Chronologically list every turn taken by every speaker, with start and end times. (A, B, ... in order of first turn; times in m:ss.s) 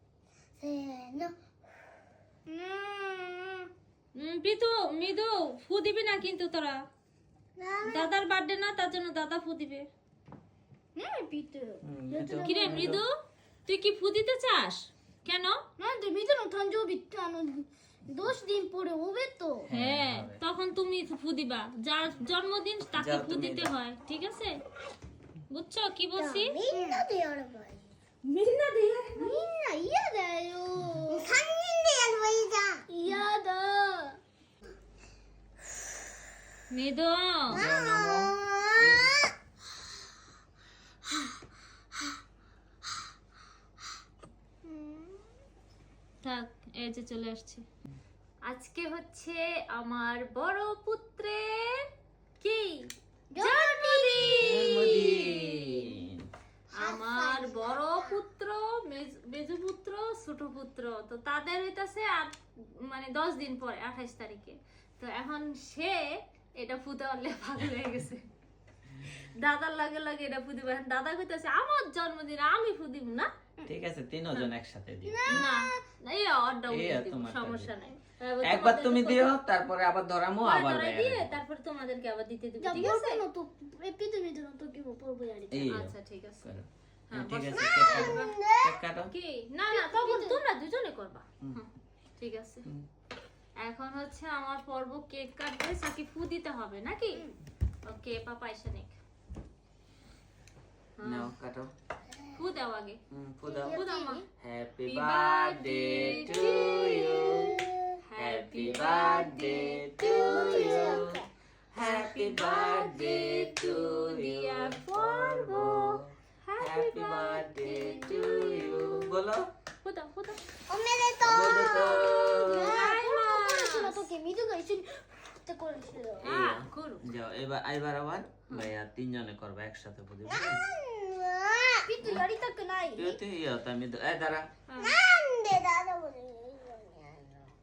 0:00.6-0:01.4 A
0:02.5-0:03.7 A
0:04.2-0:06.8 B
0:07.6-0:08.1 A
0:07.8-0:09.9 B
0:11.0-0:12.9 A
0:11.8-0:13.0 C
0:12.4-0:13.1 B
0:13.7-0:15.6 B
0:15.8-0:19.7 A
0:19.7-0:20.4 C
0:19.7-0:24.6 B
0:23.0-0:23.7 C
0:25.5-0:26.6 B
0:26.2-0:27.9 A
0:28.2-0:29.4 B
0:29.2-0:34.2 A
0:36.7-0:37.7 B
0:37.5-0:39.3 C
0:37.5-0:38.8 A
0:44.6-0:45.2 A
0:46.2-0:47.6 B
0:48.4-0:51.8 B
0:52.4-0:55.8 B
0:53.3-0:54.4 A
0:54.2-0:56.2 C
0:56.7-0:58.2 A
0:56.8-1:08.3 B
1:09.3-1:13.3 B
1:13.7-1:15.5 C
1:15.1-1:15.8 A
1:15.3-1:19.3 B
1:16.7-1:17.7 C
1:18.4-1:21.3 C
1:20.4-1:23.2 B
1:22.6-1:25.7 A
1:25.5-1:29.1 C
1:25.7-1:26.4 B
1:27.1-1:28.4 B
1:27.8-1:28.8 A
1:29.1-1:32.7 B
1:29.7-1:30.4 A
1:33.6-1:37.3 B
1:37.8-1:39.0 B
1:41.0-1:41.3 B
1:41.0-1:41.7 C
1:42.3-1:43.0 B
1:43.1-1:43.9 C
1:43.5-1:44.2 A
1:43.6-1:44.2 B
1:44.4-1:47.6 C
1:44.8-1:47.5 B
1:47.2-1:47.8 A
1:48.0-1:51.0 B
1:48.2-1:59.5 C
1:50.1-1:51.2 A
1:51.8-1:59.1 B
1:59.8-2:00.4 B
2:00.7-2:06.3 A
2:01.2-2:02.9 C
2:02.0-2:04.0 B
2:06.2-2:07.0 B
2:06.2-2:10.7 C
2:10.2-2:13.2 A
2:12.0-2:12.2 C
2:12.9-2:14.5 C
2:14.7-2:15.0 B
2:14.8-2:17.4 A